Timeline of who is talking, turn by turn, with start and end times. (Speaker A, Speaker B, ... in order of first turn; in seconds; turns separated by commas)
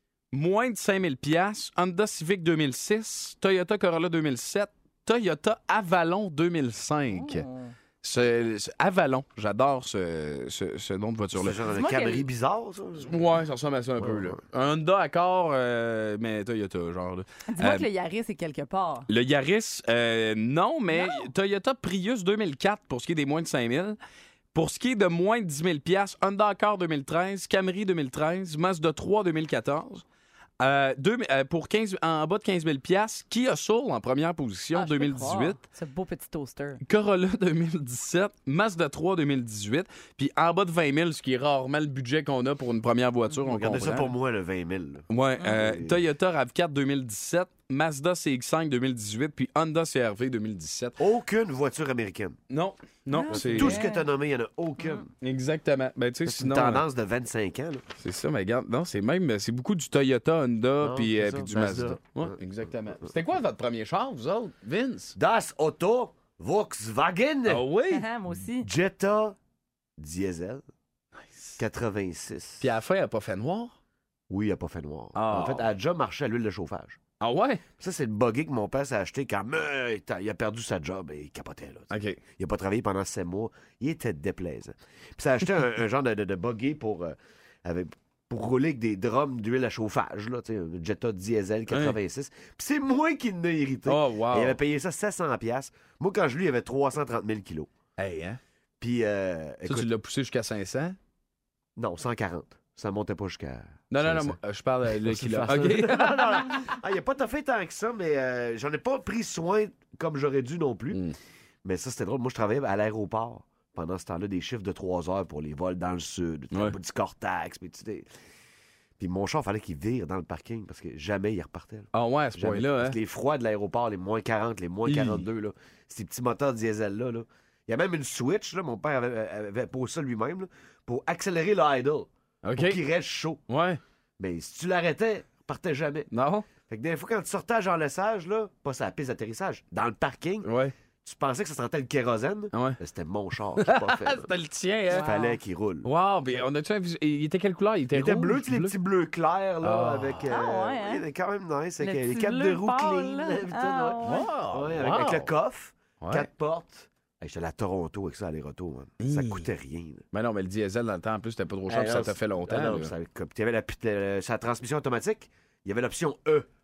Speaker A: 0.3-7.5, Speaker B: 7.1-7.7, Speaker A: 8.0-11.6, Speaker C: 11.3-13.2, Speaker B: 11.7-12.2, Speaker A: 13.1-17.9, Speaker C: 14.0-14.3, Speaker B: 17.5-19.1, Speaker A: 19.1-24.0, Speaker B: 20.9-21.3, Speaker A: 24.5-30.0, Speaker A: 30.6-35.6, Speaker B: 34.7-36.8, Speaker A: 36.8-44.1, Speaker C: 43.5-46.0, Speaker A: 45.1-51.0, Speaker C: 51.0-52.4, Speaker A: 52.5-53.8, Speaker B: 53.1-54.1, Speaker C: 53.3-55.1, Speaker A: 55.2-56.8, Speaker C: 56.3-57.8, Speaker A: 58.0-65.2, Speaker C: 60.8-62.4, Speaker C: 65.2-67.7, Speaker A: 67.5-68.1, Speaker B: 67.9-68.7, Speaker C: 68.6-69.4, Speaker C: 70.0-70.6, Speaker C: 71.6-72.7, Speaker A: 72.6-73.7, Speaker C: 74.3-77.0, Speaker A: 75.2-75.7, Speaker A: 77.2-77.6, Speaker C: 77.8-97.7, Speaker A: 81.9-82.2, Speaker A: 91.7-92.0, Speaker A: 93.9-94.6, Speaker A: 98.0-98.4, Speaker C: 98.8-99.9, Speaker A: 99.7-101.0, Speaker C: 101.8-104.4, Speaker A: 103.9-106.6, Speaker C: 104.9-111.0, Speaker C: 111.6-118.1, Speaker C: 119.0-133.4, Speaker A: 121.9-123.0, Speaker A: 124.9-125.2, Speaker A: 132.4-132.8, Speaker A: 133.5-133.8, Speaker C: 134.2-136.1, Speaker A: 136.1-136.5, Speaker C: 136.6-140.5, Speaker A: 140.4-140.7, Speaker C: 141.0-144.3, Speaker A: 142.5-142.8, Speaker A: 143.6-145.2, Speaker B: 144.9-145.4, Speaker C: 144.9-146.4, Speaker A: 145.8-148.8, Speaker C: 147.9-160.0, Speaker A: 149.6-150.3, Speaker B: 150.3-151.0, Speaker B: 151.8-154.3, Speaker A: 154.0-155.3, Speaker A: 156.0-156.3, Speaker A: 159.0-159.5, Speaker A: 160.1-162.9, Speaker C: 161.7-166.5